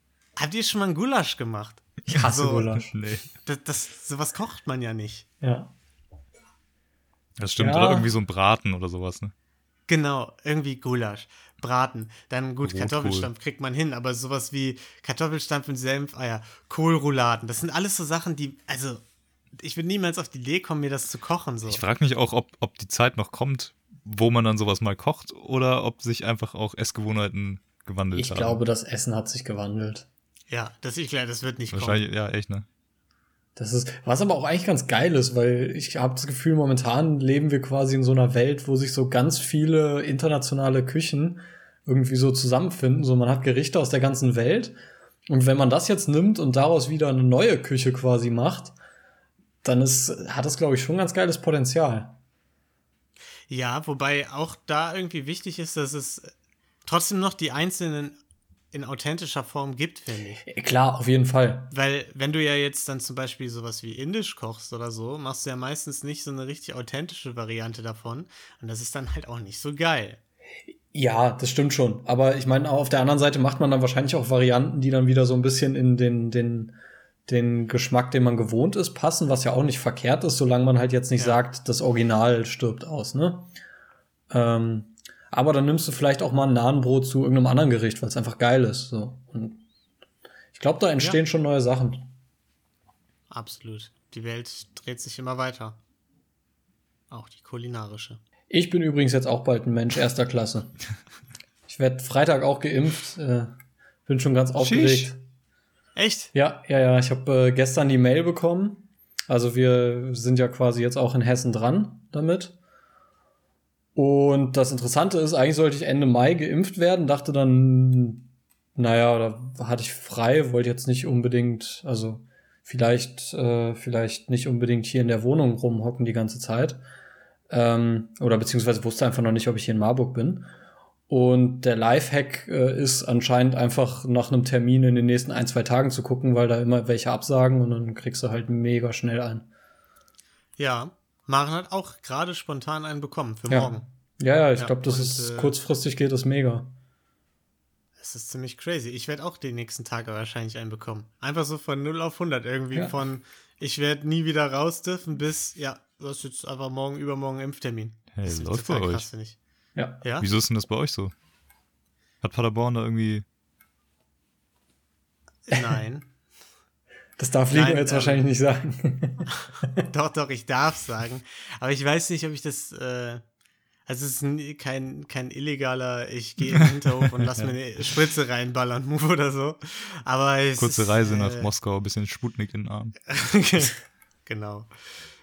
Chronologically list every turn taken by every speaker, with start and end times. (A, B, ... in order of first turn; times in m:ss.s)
0:00.4-0:02.8 A
0:02.1-0:03.0 B
0:02.9-0:03.3 C
0:03.5-0:05.3 A
0:05.4-0:05.7 B
0:07.4-0:09.3 C
0:07.6-0:08.1 B
0:09.9-0:19.0 A
0:12.6-0:13.3 C
0:19.6-0:21.8 A
0:21.7-0:28.6 C
0:28.1-0:30.1 B
0:30.5-0:32.0 A
0:31.7-0:32.7 C
0:33.6-0:44.8 B
0:45.3-0:48.8 B
0:49.6-0:52.2 B
0:53.5-0:56.3 A
0:56.8-0:58.2 A
0:58.7-1:00.4 A
1:00.4-1:01.7 B
1:01.7-1:10.2 A
1:10.9-1:16.8 B
1:17.3-1:23.5 B
1:24.3-1:29.6 B
1:30.5-1:32.0 B
1:33.3-1:35.8 A
1:37.1-1:38.2 A
1:38.5-1:40.8 B
1:41.7-1:43.5 B
1:44.1-1:45.2 B
1:44.6-1:45.1 C
1:46.0-1:46.3 A
1:46.3-1:52.6 B
1:54.0-2:06.8 B
2:07.5-2:10.5 B
2:11.1-2:19.5 B
2:20.6-2:23.9 A
2:23.5-2:26.7 B
2:24.6-2:25.6 A
2:28.0-2:39.4 A
2:38.1-2:39.1 C
2:39.8-2:40.0 B
2:40.0-2:40.3 A
2:40.2-2:41.1 C
2:42.2-2:43.2 C
2:45.5-2:46.1 A
2:47.2-2:49.7 B
2:47.5-2:48.2 A
2:49.9-2:53.2 A
2:53.9-3:01.5 A
3:00.6-3:03.0 C
3:03.1-3:04.7 A